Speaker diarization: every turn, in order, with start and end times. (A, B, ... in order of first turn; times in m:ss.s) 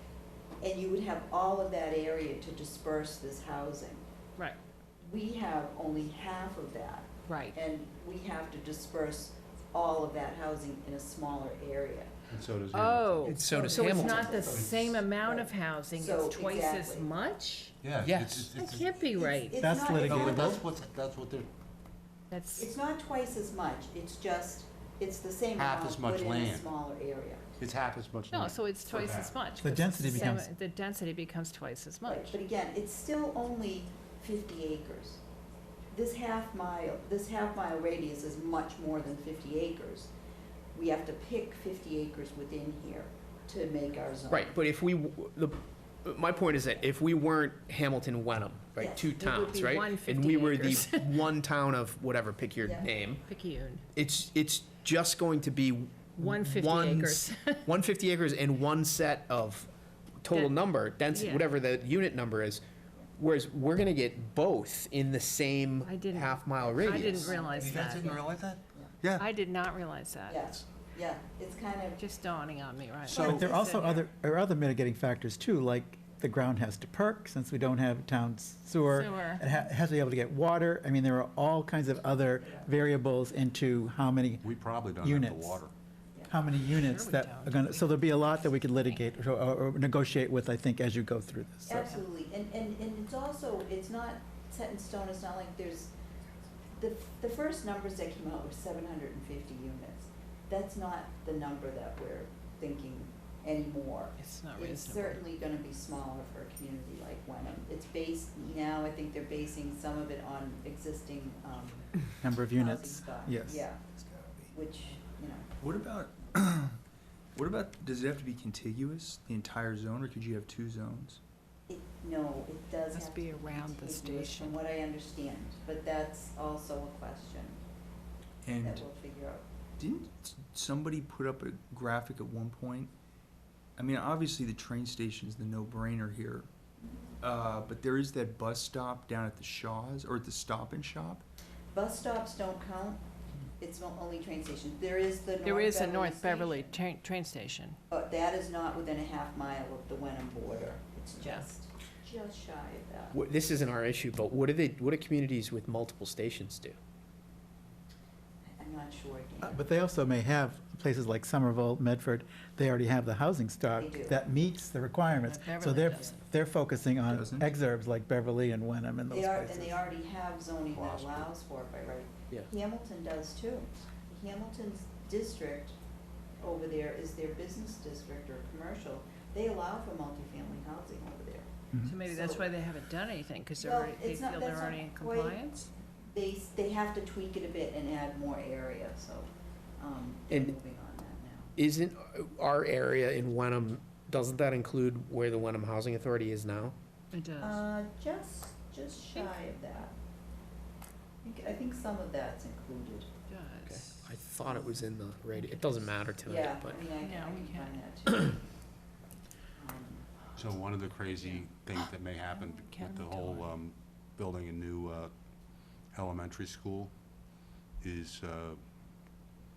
0:00.6-0:04.0 A
0:05.0-0:12.1 A
0:07.3-0:07.6 B
0:12.3-0:13.4 C
0:12.7-0:17.8 B
0:13.2-0:14.0 D
0:13.4-0:14.4 E
0:13.5-0:14.7 A
0:13.9-0:15.0 C
0:15.2-0:17.1 A
0:17.8-0:18.9 C
0:18.0-0:18.5 E
0:18.6-0:19.6 B
0:19.2-0:20.6 A
0:19.6-0:20.6 F
0:20.0-0:21.5 C
0:22.3-0:22.7 B
0:22.5-0:27.4 A
0:25.6-0:26.7 C
0:27.6-0:29.4 C
0:28.3-0:32.4 B
0:29.6-0:30.5 F
0:32.1-0:35.2 A
0:35.9-0:40.1 A
0:40.7-0:44.5 A
0:44.3-0:53.2 E
0:48.8-0:49.1 A
0:49.2-0:51.2 B
0:53.2-0:53.8 B
0:53.9-1:02.6 E
0:56.2-0:57.7 B
1:00.3-1:01.5 B
1:03.2-1:07.4 E
1:05.8-1:08.2 B
1:06.6-1:08.9 A
1:07.5-1:08.6 C
1:09.0-1:09.3 D
1:09.2-1:10.4 B
1:10.3-1:12.0 A
1:12.0-1:14.1 B
1:13.1-1:13.7 A
1:13.1-1:24.5 F
1:18.9-1:19.5 B
1:22.4-1:22.7 A
1:24.4-1:25.7 C
1:25.0-1:25.6 F
1:26.3-1:32.0 F
1:26.7-1:29.1 B
1:31.7-1:35.9 A
1:36.7-1:51.9 A
1:44.2-1:45.2 B
1:52.2-1:53.6 F
1:52.5-1:53.8 A
1:53.9-1:54.5 D
1:54.5-1:55.5 A
1:55.6-1:56.8 D
1:57.4-2:01.2 D
2:01.7-2:07.6 A
2:02.9-2:04.6 B
2:08.4-2:08.9 D
2:08.6-2:09.4 A
2:09.8-2:12.9 D
2:13.8-2:16.5 D
2:16.8-2:17.2 A
2:17.2-2:21.2 D
2:21.7-2:23.0 A
2:23.6-2:26.8 A
2:25.4-2:27.8 B
2:27.9-2:33.2 A
2:31.2-2:31.5 B
2:33.1-2:36.8 E
2:38.5-2:39.6 A
2:39.4-2:49.9 F
2:43.7-2:44.2 A
2:45.2-2:46.2 B
2:47.0-2:47.5 D
2:49.1-2:55.8 A
2:50.7-2:51.3 C
2:56.4-3:02.5 A
3:01.8-3:05.7 B
3:03.6-3:05.5 A
3:06.0-3:11.5 A
3:11.6-3:16.8 E
3:17.1-3:17.6 B
3:17.4-3:19.9 A
3:21.2-3:23.1 A
3:23.3-3:24.1 B
3:23.6-3:26.9 E
3:25.4-3:25.9 B
3:26.2-3:28.4 A
3:27.0-3:27.8 B
3:29.6-3:30.1 A
3:30.4-3:35.1 C
3:31.1-3:31.4 B
3:32.3-3:33.5 B
3:35.8-3:36.9 C
3:37.8-3:38.6 C